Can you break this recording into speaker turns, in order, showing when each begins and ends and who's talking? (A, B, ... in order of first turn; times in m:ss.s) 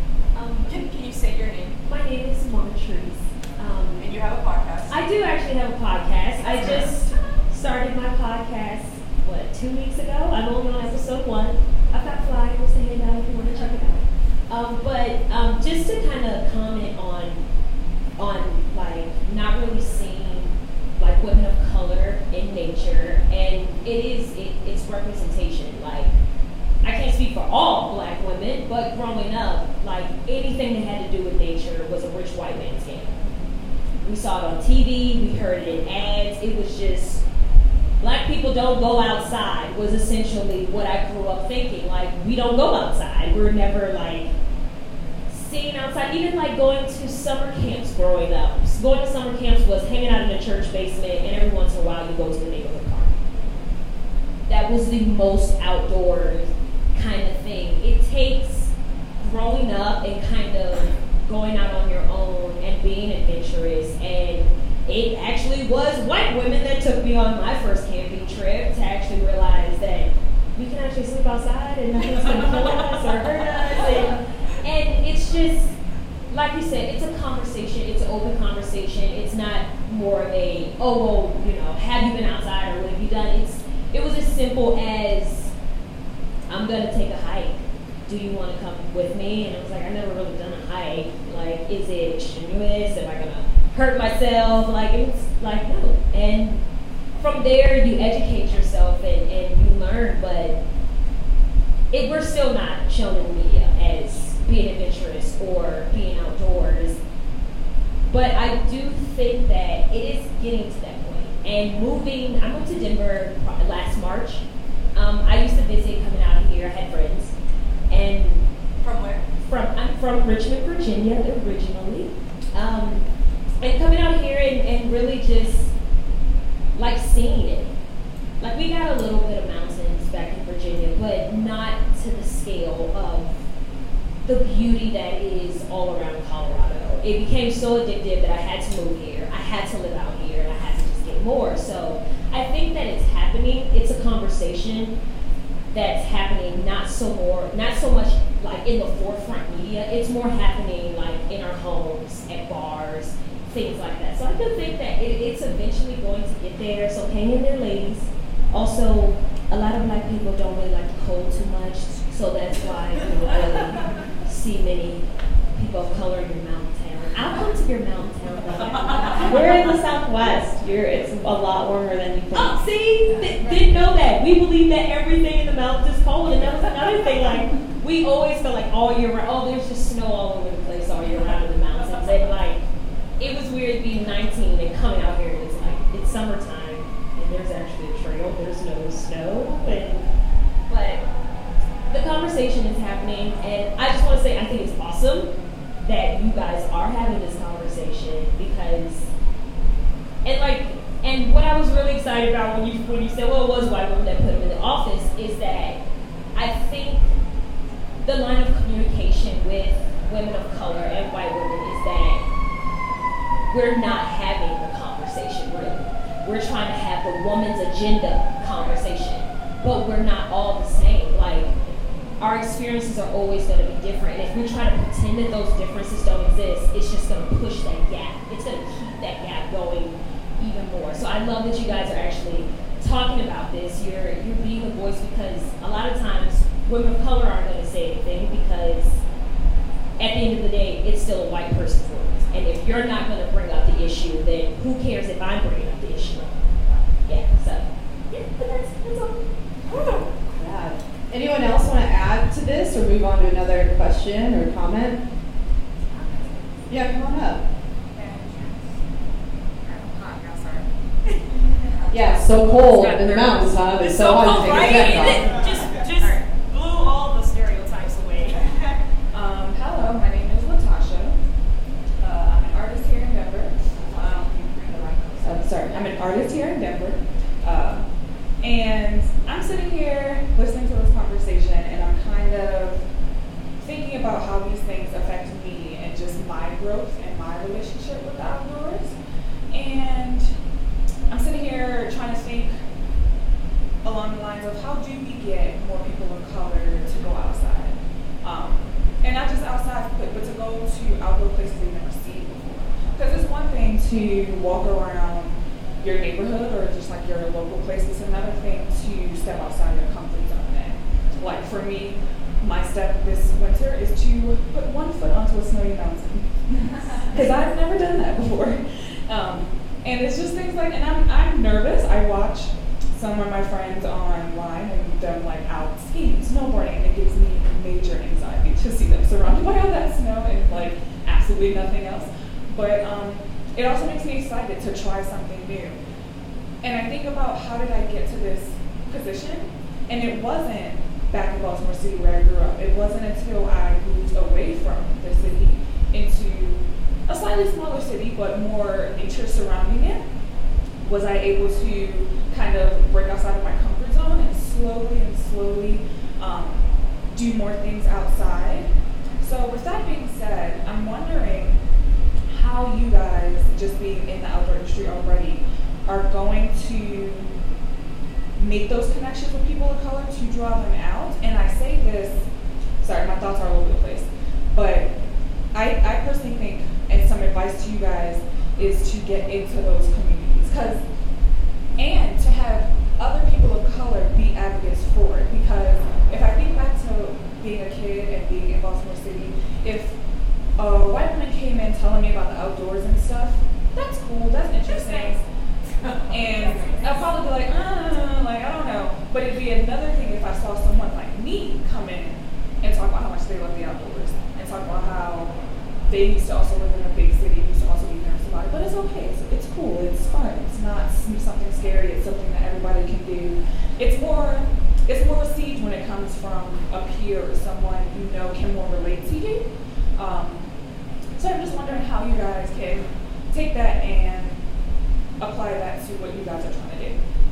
0:00.3-0:00.9 A
0:00.6-0:01.8 B
0:01.8-0:04.2 A
0:04.0-0:05.0 B
0:04.9-0:17.4 A
0:18.2-0:26.2 A
0:26.8-0:37.2 A
0:38.0-0:44.3 A
0:45.3-0:53.2 A
0:54.5-1:15.7 A
1:16.3-1:25.5 A
1:26.5-1:36.6 A
1:37.2-1:40.6 A
1:41.9-1:47.0 A
1:48.1-1:57.3 A
1:57.9-1:58.4 A
1:58.8-1:59.2 B
1:59.4-2:03.0 A
2:03.6-2:05.7 A
2:06.7-2:07.7 A
2:08.4-2:13.3 A
2:14.2-2:24.9 A
2:25.7-2:49.8 A
2:48.9-2:49.2 B
2:49.2-2:52.6 C
2:52.3-3:02.6 A
3:03.2-3:10.1 A
3:10.7-3:11.0 A
3:11.9-3:19.1 A
3:20.2-3:25.8 A
3:26.3-3:27.1 A
3:28.0-3:32.2 A
3:33.5-3:41.6 A
3:42.2-3:59.0 A
4:00.0-4:06.3 A
4:07.0-4:10.0 A
4:09.7-4:15.0 D
4:16.7-4:17.4 D
4:17.9-4:18.5 B
4:19.7-4:20.5 E
4:20.3-4:20.6 B
4:21.7-4:28.8 B
4:21.9-4:25.4 D
4:24.3-4:26.1 A
4:29.1-4:31.2 E
4:32.0-4:34.7 E
4:33.9-4:35.9 B
4:35.2-4:37.8 E
4:38.4-4:42.8 E
4:43.6-4:48.9 E
4:49.5-4:50.3 E
4:51.1-4:52.5 E
4:53.8-5:35.8 E
5:36.6-5:50.0 E
5:50.8-5:58.7 E
5:59.2-6:01.6 E
6:02.3-6:07.3 E
6:08.4-6:12.2 E
6:12.8-6:14.9 E
6:15.5-6:20.8 E
6:21.8-6:29.9 E
6:30.6-6:35.2 E
6:34.6-6:35.1 B
6:35.8-6:37.2 B
6:36.1-6:45.3 E
6:45.9-6:59.4 E
7:00.0-7:00.5 E
7:01.2-7:04.4 E
7:05.2-7:07.0 E